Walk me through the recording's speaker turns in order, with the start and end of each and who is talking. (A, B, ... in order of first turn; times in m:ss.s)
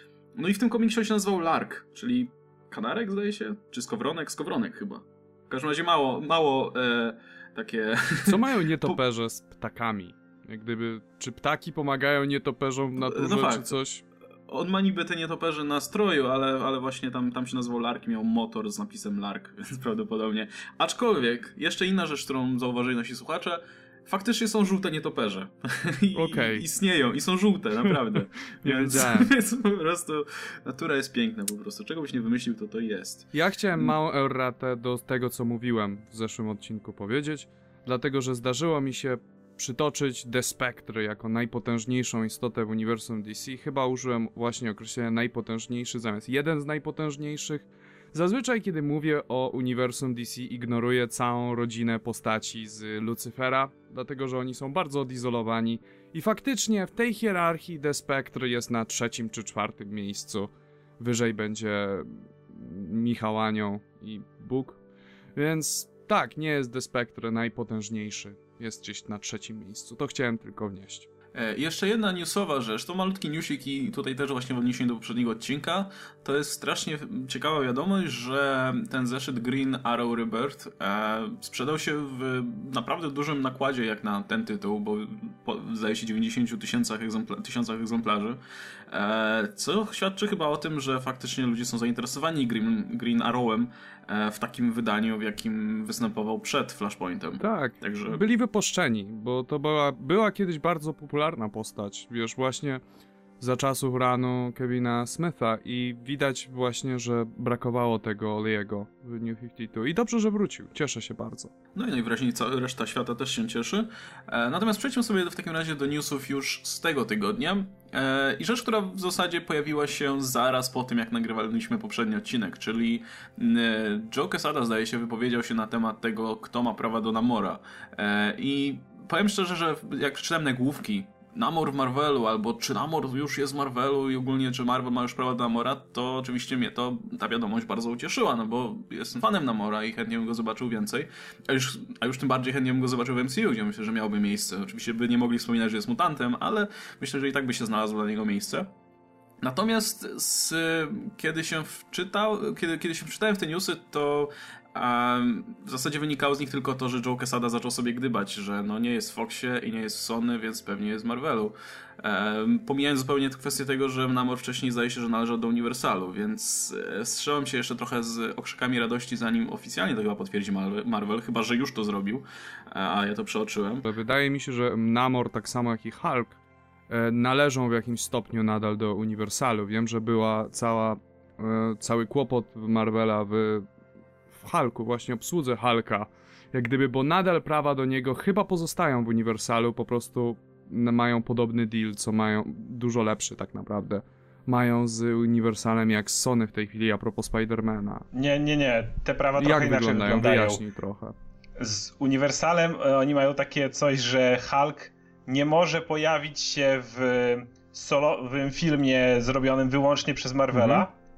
0:00.4-0:09.0 A
0:08.3-0:14.0 B
0:13.0-0:13.8 A
0:14.5-0:33.9 A
0:26.1-0:26.6 B
0:28.6-0:29.3 B
0:33.3-1:04.8 B
1:05.4-1:11.1 B
1:11.3-1:38.2 A
1:37.4-1:42.8 B
1:43.4-1:51.5 B
1:51.8-2:28.7 A
2:29.4-2:53.9 A
2:53.8-2:56.4 B
2:56.9-3:03.6 B
3:04.4-3:18.0 B
3:18.1-3:20.6 C
3:19.4-3:21.1 B
3:21.6-3:30.9 C
3:30.5-3:30.8 B